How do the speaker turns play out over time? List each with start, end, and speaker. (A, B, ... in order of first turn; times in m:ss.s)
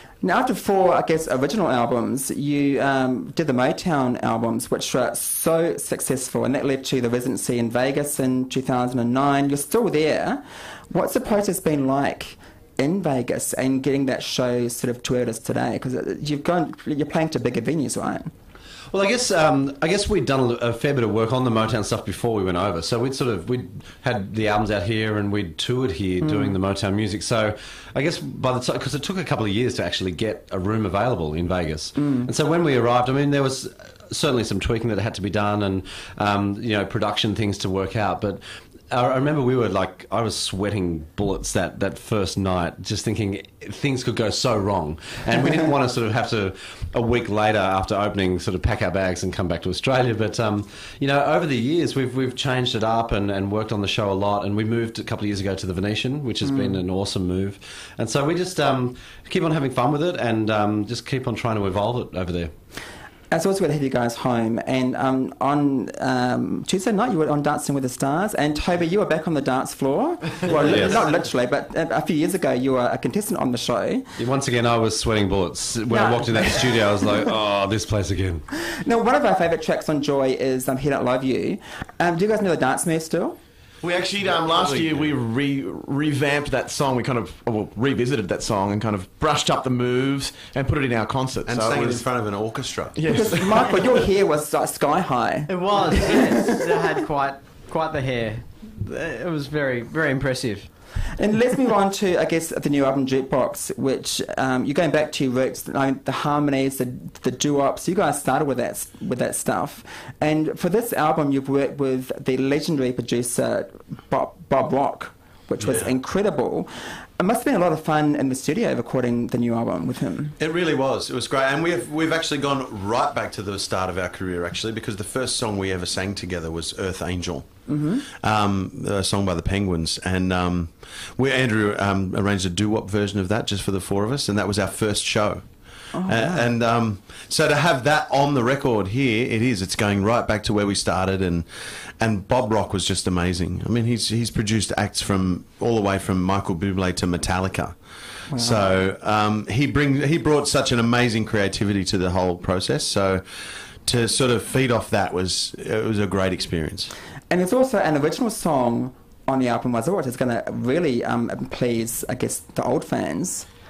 0:00.2-0:18.3 A
0:18.9-1:02.5 B
0:56.4-0:56.8 A
1:03.3-1:14.1 A
1:10.5-1:11.0 B
1:14.2-1:18.4 B
1:15.9-1:17.2 A
1:18.8-1:23.4 A
1:23.8-1:32.1 C
1:24.2-1:25.1 D
1:31.4-1:33.0 D
1:32.9-1:34.0 C
1:33.1-1:36.4 A
1:35.5-1:40.7 E
1:41.1-2:00.4 A
1:55.6-1:55.9 D
2:00.4-2:07.5 D
2:07.7-2:08.0 A
2:08.0-2:15.5 D
2:15.9-2:16.5 A
2:16.0-2:21.4 D
2:22.0-2:27.8 D
2:28.3-2:28.7 A
2:28.3-2:33.2 D
2:33.8-2:36.9 D
2:37.3-2:43.5 A